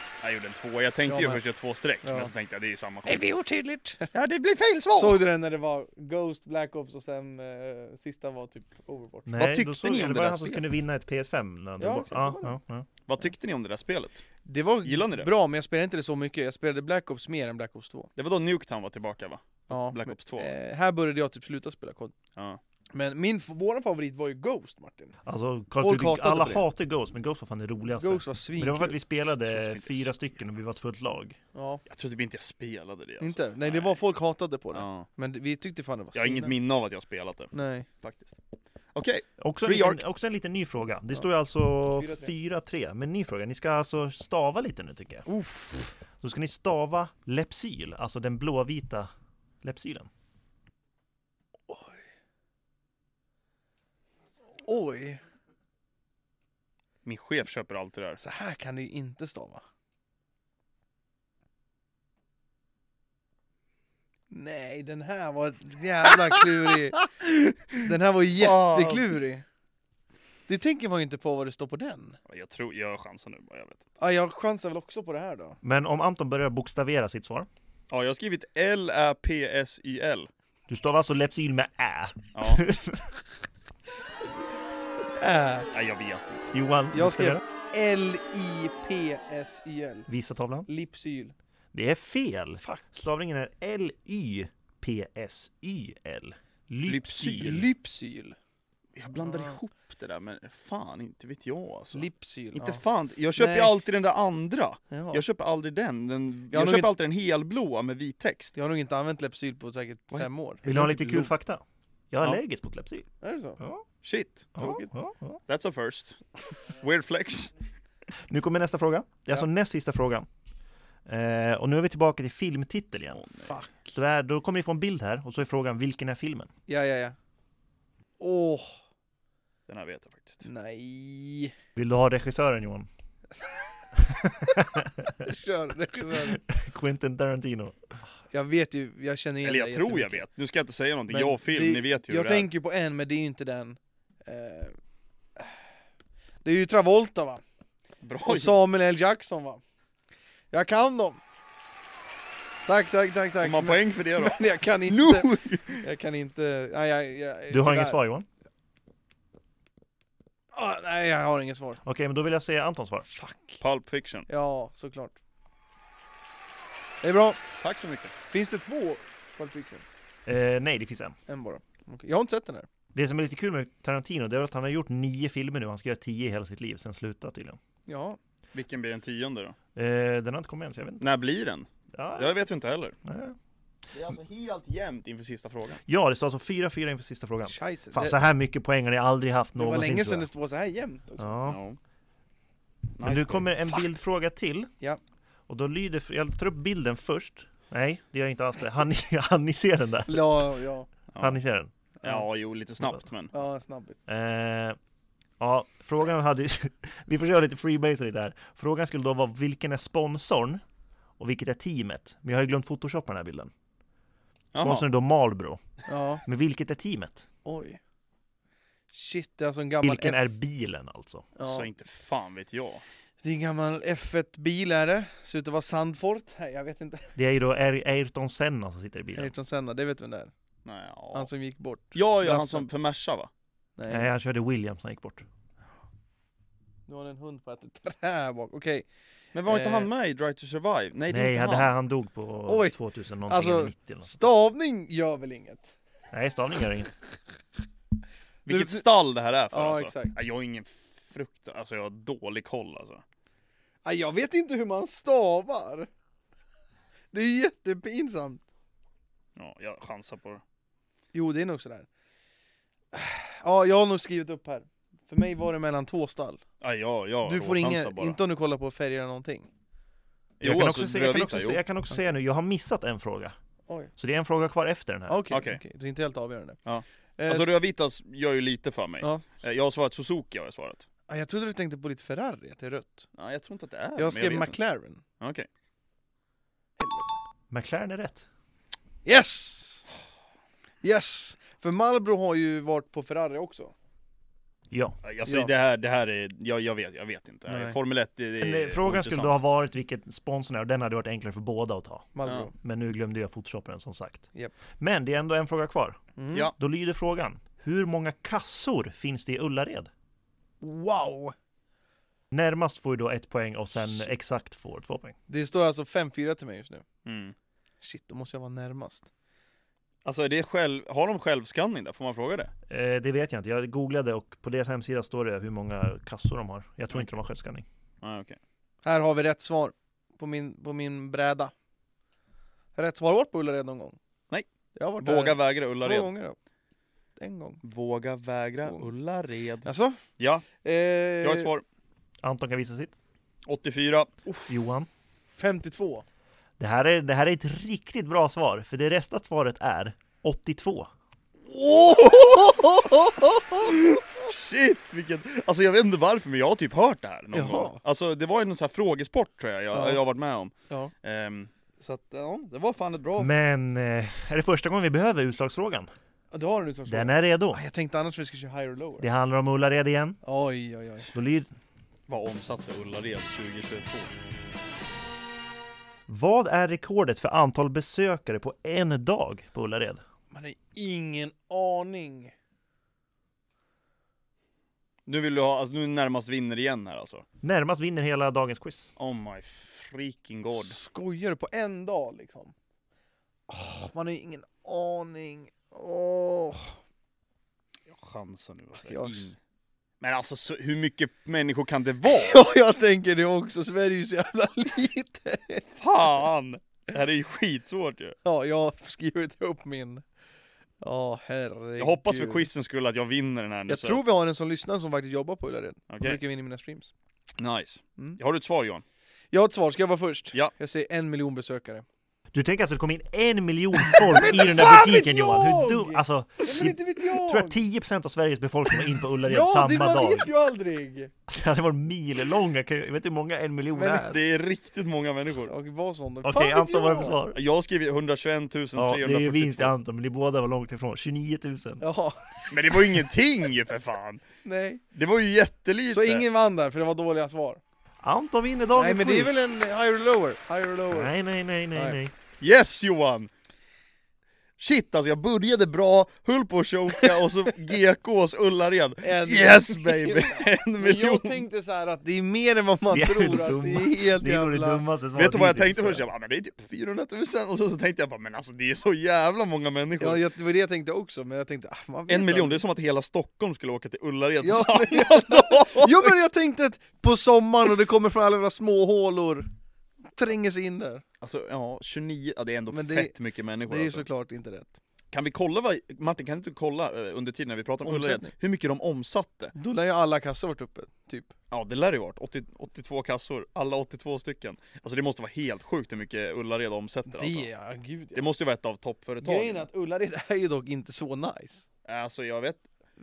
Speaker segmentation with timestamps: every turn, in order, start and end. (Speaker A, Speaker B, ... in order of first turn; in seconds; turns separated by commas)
Speaker A: 0.2-3.3, Speaker B: 1.1-1.4, Speaker B: 2.0-2.3, Speaker B: 3.0-4.1, Speaker A: 4.1-5.2, Speaker B: 5.0-9.3, Speaker C: 9.3-12.9, Speaker A: 9.4-10.7, Speaker B: 11.8-12.6, Speaker A: 13.1-14.2, Speaker B: 14.4-18.1, Speaker A: 14.8-15.3, Speaker A: 18.2-20.5, Speaker B: 19.7-22.1, Speaker B: 22.9-25.2, Speaker C: 25.3-31.4, Speaker B: 25.8-26.6, Speaker B: 27.9-29.0, Speaker A: 29.2-30.1, Speaker B: 31.5-31.8, Speaker A: 31.9-34.0, Speaker B: 33.2-36.6, Speaker A: 34.7-35.1, Speaker A: 36.1-38.4, Speaker B: 37.5-37.9, Speaker A: 38.9-40.0, Speaker C: 39.4-45.3, Speaker B: 41.9-42.3, Speaker B: 45.3-45.9, Speaker C: 46.2-49.1, Speaker C: 49.6-50.1, Speaker B: 51.7-52.0, Speaker B: 54.6-55.2, Speaker A: 57.0-58.2, Speaker B: 58.2-59.6, Speaker B: 64.3-67.0, Speaker A: 67.0-67.8, Speaker B: 67.8-69.5, Speaker A: 68.4-69.2, Speaker B: 70.5-72.2, Speaker A: 72.3-73.8, Speaker B: 74.0-75.6, Speaker C: 75.6-77.5, Speaker A: 77.9-80.3, Speaker C: 80.7-83.2, Speaker A: 82.3-82.6, Speaker B: 85.0-85.7, Speaker A: 85.7-86.6, Speaker C: 86.5-87.4, Speaker B: 86.9-90.1, Speaker C: 90.1-90.7, Speaker B: 90.7-91.3, Speaker C: 91.7-97.7, Speaker B: 92.6-93.0, Speaker A: 96.9-97.7, Speaker B: 97.3-98.4, Speaker A: 99.0-108.5, Speaker B: 99.2-99.6, Speaker B: 101.9-102.8, Speaker B: 103.4-103.7, Speaker B: 104.9-105.2, Speaker B: 106.5-106.9, Speaker B: 108.5-110.7, Speaker A: 110.1-111.3, Speaker C: 110.7-113.1, Speaker B: 113.2-113.6, Speaker C: 113.6-113.8, Speaker A: 114.0-114.8, Speaker C: 114.6-115.4, Speaker B: 114.6-114.9, Speaker A: 115.5-117.5, Speaker C: 118.3-120.3, Speaker C: 121.1-123.2, Speaker A: 123.1-123.6, Speaker B: 123.4-124.0, Speaker C: 124.0-126.5, Speaker B: 126.7-127.2, Speaker B: 128.2-128.7, Speaker A: 129.7-130.4, Speaker B: 130.4-131.5, Speaker C: 131.8-132.9, Speaker C: 134.0-135.2, Speaker B: 135.2-136.4, Speaker C: 136.1-137.8, Speaker B: 138.3-140.2, Speaker A: 139.4-142.5, Speaker B: 141.1-144.8, Speaker B: 146.4-147.4, Speaker A: 148.0-148.6, Speaker B: 148.2-149.6, Speaker B: 150.5-151.2, Speaker B: 152.7-158.0, Speaker A: 153.4-155.8, Speaker C: 157.5-158.3, Speaker B: 160.5-161.8, Speaker C: 161.8-163.1, Speaker B: 163.1-163.6, Speaker A: 163.6-164.3, Speaker B: 164.3-165.2, Speaker B: 167.0-167.4, Speaker A: 167.6-168.1, Speaker B: 168.3-169.8, Speaker C: 170.3-171.2, Speaker B: 171.3-172.7, Speaker C: 172.9-177.6, Speaker B: 177.9-178.2, Speaker A: 178.5-179.6, Speaker C: 179.8-181.1, Speaker A: 181.0-183.0, Speaker C: 181.9-182.4, Speaker C: 183.1-183.4, Speaker A: 183.9-185.8, Speaker C: 185.9-190.3, Speaker B: 187.5-188.2, Speaker B: 189.6-191.4, Speaker C: 191.2-191.6, Speaker A: 191.5-191.8, Speaker A: 193.0-193.5, Speaker C: 193.0-194.7, Speaker C: 195.5-200.5, Speaker B: 200.1-200.9, Speaker A: 201.1-201.4, Speaker C: 201.2-201.7, Speaker A: 202.0-203.3, Speaker B: 203.3-204.0, Speaker C: 204.1-204.8, Speaker C: 205.4-210.6, Speaker C: 211.2-213.5, Speaker A: 214.5-214.9, Speaker C: 214.6-215.6, Speaker B: 215.9-216.2, Speaker C: 216.2-217.3, Speaker B: 217.4-217.8, Speaker B: 218.9-220.2, Speaker C: 219.8-221.3, Speaker B: 221.4-221.7, Speaker A: 221.4-222.8, Speaker B: 223.2-227.2, Speaker C: 227.2-229.3, Speaker B: 229.1-230.3, Speaker A: 230.7-231.3, Speaker B: 231.1-232.7, Speaker A: 231.9-233.3, Speaker B: 233.8-234.1, Speaker C: 233.9-235.2, Speaker B: 236.9-238.8, Speaker A: 239.3-241.7, Speaker B: 239.5-239.9, Speaker C: 241.1-244.2, Speaker B: 242.5-242.8, Speaker B: 243.3-245.8, Speaker C: 246.1-247.0, Speaker A: 248.5-253.0, Speaker B: 248.5-248.8, Speaker B: 249.5-250.2, Speaker B: 253.8-255.9, Speaker B: 257.1-258.5, Speaker A: 259.4-260.4, Speaker B: 261.1-261.9, Speaker B: 262.9-266.4, Speaker A: 266.6-268.2, Speaker B: 267.2-269.5, Speaker A: 270.4-271.6, Speaker C: 270.4-273.4, Speaker C: 274.0-275.2, Speaker B: 275.1-276.6, Speaker A: 275.3-275.6, Speaker A: 276.7-280.9, Speaker B: 277.2-277.5, Speaker B: 281.1-283.1, Speaker A: 283.1-284.6, Speaker B: 284.0-285.0, Speaker A: 285.2-285.5, Speaker B: 286.8-287.2, Speaker C: 287.5-288.3, Speaker B: 289.1-289.9, Speaker B: 290.8-293.7, Speaker C: 294.7-295.0, Speaker A: 295.0-299.4, Speaker B: 295.2-295.5, Speaker B: 297.5-297.8, Speaker C: 298.4-306.0, Speaker B: 302.1-302.5, Speaker B: 306.2-306.5, Speaker C: 306.6-309.9, Speaker B: 310.6-311.4, Speaker C: 312.3-315.2, Speaker B: 315.3-316.9, Speaker A: 317.1-317.4, Speaker B: 317.8-319.1, Speaker A: 320.1-322.5, Speaker C: 322.7-327.6, Speaker A: 328.0-328.4, Speaker B: 328.9-331.5, Speaker B: 332.8-334.0, Speaker B: 334.8-336.4, Speaker A: 335.0-336.1, Speaker B: 337.2-337.6, Speaker A: 337.6-340.4, Speaker B: 339.6-340.0, Speaker B: 340.6-341.5, Speaker A: 341.2-341.6, Speaker C: 342.2-343.0, Speaker A: 343.5-344.4, Speaker C: 344.5-344.9, Speaker B: 345.4-346.1, Speaker C: 346.6-350.9, Speaker B: 351.5-353.8, Speaker A: 351.9-352.7, Speaker A: 353.5-363.3, Speaker B: 357.3-357.8, Speaker B: 359.7-360.0, Speaker C: 363.2-365.9, Speaker B: 366.3-369.1, Speaker C: 366.9-367.6, Speaker C: 369.0-370.2, Speaker B: 370.2-371.1, Speaker C: 371.1-371.5, Speaker A: 372.1-374.1, Speaker C: 376.1-380.0, Speaker B: 380.3-382.3, Speaker A: 385.1-387.2, Speaker C: 387.4-388.9, Speaker A: 389.0-390.8, Speaker B: 390.5-392.5, Speaker B: 393.5-396.8, Speaker A: 397.9-399.4, Speaker B: 398.8-399.3, Speaker A: 400.0-402.4, Speaker B: 402.1-405.7, Speaker A: 405.8-408.2, Speaker B: 408.2-410.0, Speaker B: 410.8-412.4, Speaker A: 411.8-414.0, Speaker B: 413.7-416.9, Speaker A: 415.9-416.2, Speaker A: 417.4-418.8, Speaker B: 419.3-421.9, Speaker C: 422.3-430.3, Speaker B: 423.9-427.6, Speaker B: 429.2-431.1, Speaker C: 431.3-434.2, Speaker B: 433.7-434.2, Speaker A: 433.9-435.5, Speaker B: 435.5-437.2, Speaker C: 436.2-437.4, Speaker A: 437.3-439.7, Speaker C: 438.8-441.8, Speaker B: 441.8-442.9, Speaker A: 442.5-444.2, Speaker B: 444.4-444.8, Speaker A: 444.9-446.2, Speaker B: 445.9-447.6, Speaker C: 448.0-449.4, Speaker B: 448.7-451.1, Speaker C: 450.9-452.1, Speaker B: 451.7-452.0, Speaker A: 452.4-453.3, Speaker A: 454.6-461.4, Speaker B: 459.0-464.8, Speaker C: 462.9-466.0, Speaker A: 465.1-470.2, Speaker B: 470.0-472.6, Speaker A: 472.1-476.2, Speaker B: 474.4-479.5, Speaker B: 480.1-481.0, Speaker A: 481.2-484.1, Speaker B: 482.7-484.8, Speaker A: 485.1-489.5, Speaker B: 487.8-488.3, Speaker B: 489.6-491.3, Speaker A: 491.5-497.5, Speaker B: 497.1-498.3, Speaker A: 498.1-499.7, Speaker B: 499.2-501.7, Speaker A: 501.9-502.6